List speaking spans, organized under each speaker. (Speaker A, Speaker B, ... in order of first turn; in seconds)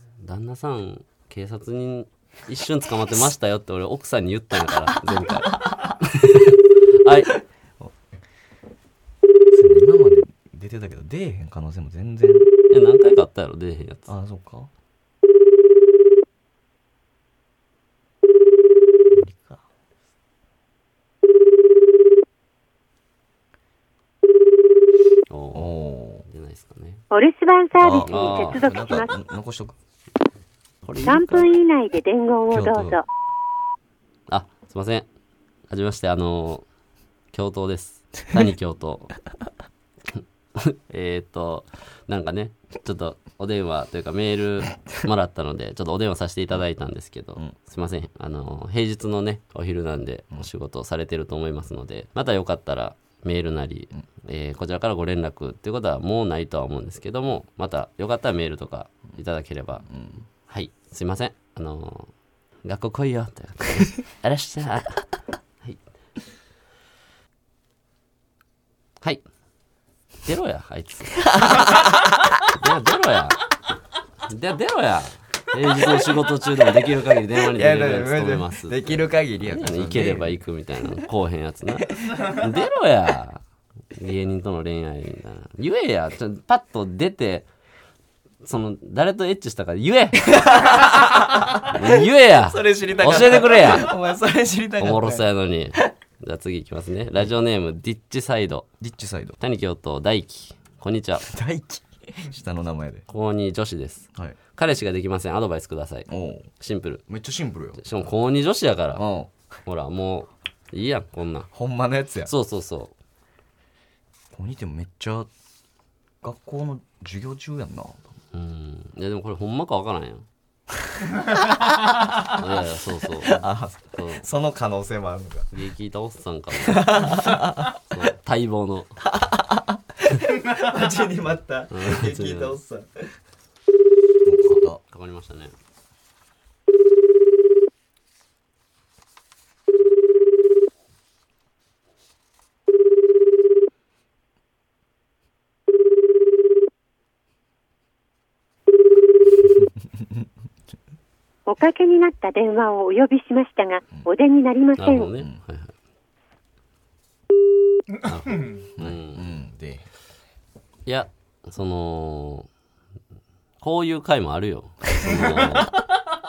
Speaker A: 0.2-7.3, 12.7-14.1, 25.3-25.7, 26.2-27.0, 28.1-28.6, 30.8-31.5, 34.3-35.1, 35.7-36.6, 37.3-39.1, 40.2-59.9, 60.5-62.1, 62.6-65.0, 70.2-71.7, 72.5-73.5, 74.3-83.4, 84.0-87.5, 88.4-90.8, 91.6-93.9, 94.8-98.7, 99.4-101.3, 103.1-106.1, 106.6-107.0, 107.8-109.0, 109.7-111.5, 112.3-112.9, 118.3-120.3, 122.2-124.2, 125.5-129.0, 131.7-132.6, 134.9-135.5, 154.8-155.7, 158.0-159.3, 160.9-162.5, 163.6-165.7
Speaker B: 5.5-5.9, 9.5-12.5, 14.1-14.7, 19.2-19.6, 25.5-26.2, 27.8-29.8, 32.5-33.0, 59.9-60.2, 71.3-72.3, 77.5-80.4, 90.3-95.8, 98.8-99.4, 101.3-103.0, 106.1-106.5, 107.1-107.8, 109.0-109.3, 111.5-112.3, 114.3-115.3, 116.2-118.0, 121.0-122.3, 123.2-125.5, 126.6-127.8, 129.0-133.1, 134.2-134.8, 158.8-159.8, 165.0-165.7
Speaker C: 27.1-29.1, 31.0-33.0, 151.5-155.1